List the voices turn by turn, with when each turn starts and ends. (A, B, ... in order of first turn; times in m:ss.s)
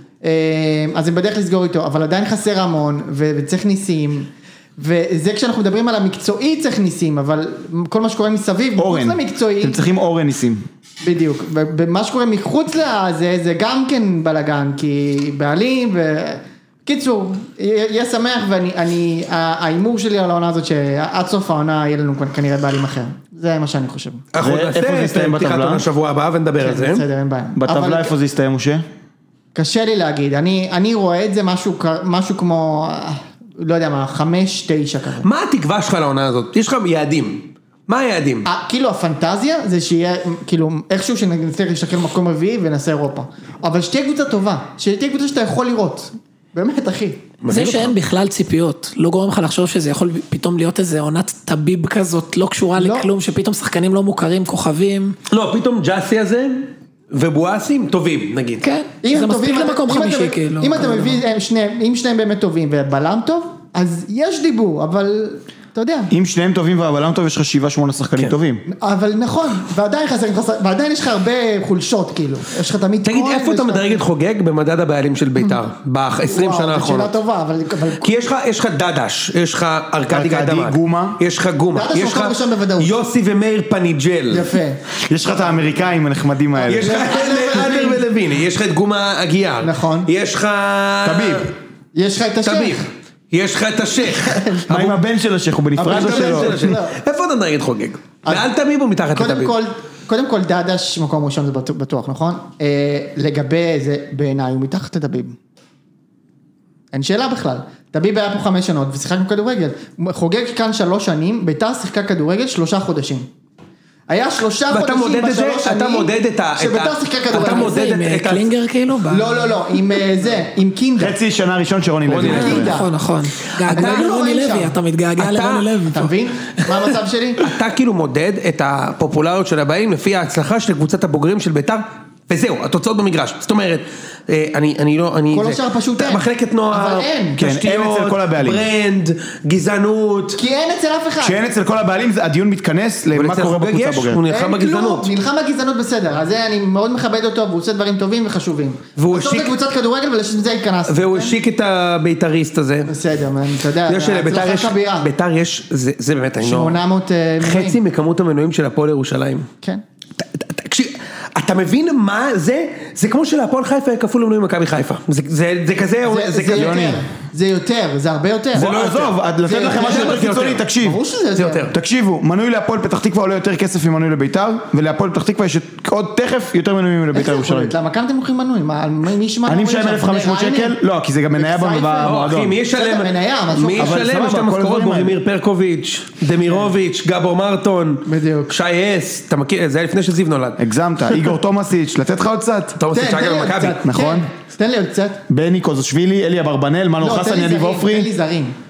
0:00.2-0:09.8 A
0:08.8-0:10.7 B
0:11.0-0:24.2 A
0:24.3-0:27.1 C
0:24.4-0:25.8 B
0:26.6-0:28.1 A
0:27.6-0:28.8 B
0:29.6-0:35.3 A
0:35.2-0:38.5 C
0:38.4-0:47.2 A
0:47.4-0:47.9 C
0:47.5-0:55.2 D
0:52.8-0:53.1 A
0:55.3-0:58.7 C
0:58.6-1:01.2 D
0:59.0-1:06.1 A
1:06.1-1:08.6 B
1:08.7-1:14.0 A
1:13.0-1:17.1 C
1:16.2-1:18.1 A
1:18.0-1:24.6 C
1:20.1-1:21.2 B
1:21.7-1:22.9 A
1:24.3-1:24.8 A
1:25.0-1:27.1 B
1:26.6-1:28.0 A
1:26.7-1:31.5 C
1:29.6-1:30.1 A
1:31.0-1:31.5 B
1:32.0-1:32.9 A
1:32.4-1:35.0 C
1:34.0-1:34.7 A
1:34.7-1:36.7 B
1:35.8-1:37.0 A
1:35.8-1:39.6 C
1:39.1-1:45.4 A
1:46.9-1:53.3 A
1:54.1-1:57.8 A
1:54.7-1:58.5 C
1:57.3-1:59.6 D
1:59.1-2:01.2 A
2:01.0-2:02.8 B
2:02.1-2:02.7 C
2:02.2-2:02.9 A
2:02.2-2:06.1 D
2:03.7-2:04.2 C
2:03.7-2:04.8 A
2:05.2-2:05.7 C
2:05.9-2:07.5 A
2:07.4-2:20.4 C
2:15.3-2:17.4 A
2:17.4-2:18.6 B
2:20.4-2:21.4 A
2:21.2-2:24.2 B
2:23.2-2:25.1 C
2:24.3-2:31.4 A
2:29.0-2:29.5 C
2:30.9-2:32.9 C
2:32.9-2:35.1 A
2:33.9-2:36.8 C
2:36.4-2:37.8 A
2:37.4-2:39.5 C
2:40.2-2:46.9 C
2:46.1-2:48.7 A
2:46.5-2:47.0 B
2:48.5-2:51.0 B
2:48.6-2:50.7 C
2:49.4-2:50.2 A
2:50.8-2:51.7 A
2:51.4-2:51.7 C
2:51.7-2:57.7 B
2:57.1-3:00.8 A
2:59.4-3:02.6 B
3:01.4-3:02.2 A
3:02.0-3:10.6 C
3:02.7-3:04.1 A
3:03.8-3:05.2 B
3:06.5-3:06.7 A
3:08.1-3:08.5 A
3:10.6-3:12.8 B
3:12.8-3:13.8 C
3:12.9-3:15.2 A
3:13.8-3:14.3 B
3:15.3-3:18.1 B
3:17.0-3:18.6 A